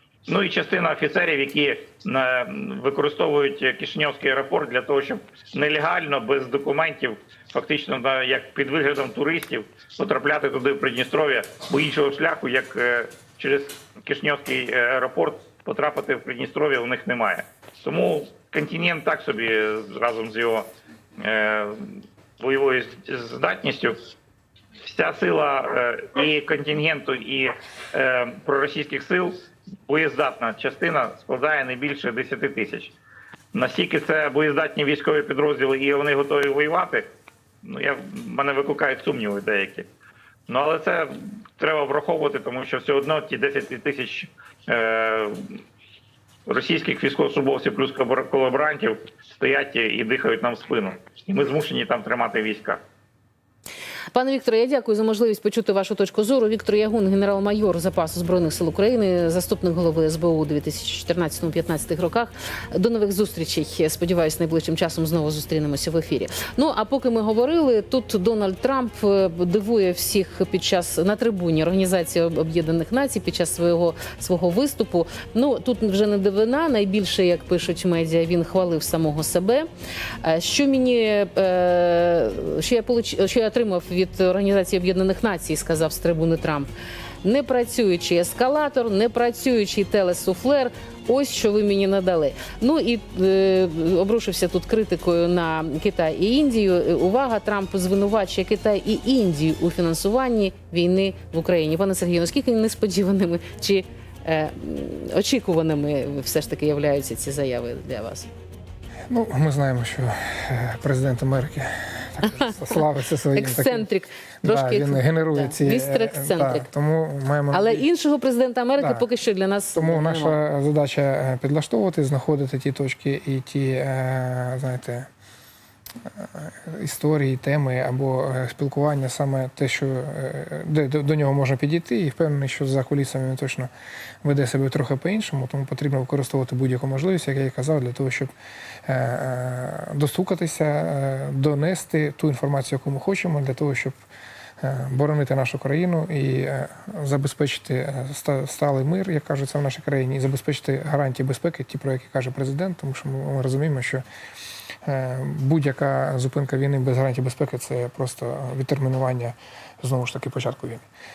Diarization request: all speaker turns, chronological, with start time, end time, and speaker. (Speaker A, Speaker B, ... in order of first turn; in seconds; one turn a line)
Speaker A: 0.3-20.7
Speaker A: 21.2-24.0
Speaker A: 24.8-32.9
Speaker A: 33.5-37.0
Speaker A: 37.6-39.9
Speaker A: 40.5-45.6
Speaker A: 46.5-52.8
Speaker B: 54.1-79.7
Speaker B: 80.2-86.7
Speaker B: 87.2-108.3
Speaker C: 109.1-113.8
Speaker B: 112.3-116.7
Speaker C: 114.4-117.8
Speaker B: 117.5-120.4
Speaker C: 118.8-119.0
Speaker C: 119.7-125.1
Speaker C: 126.0-133.7
Speaker C: 134.2-138.3
Speaker C: 138.8-143.9
Speaker C: 144.6-154.0
Speaker C: 154.8-160.8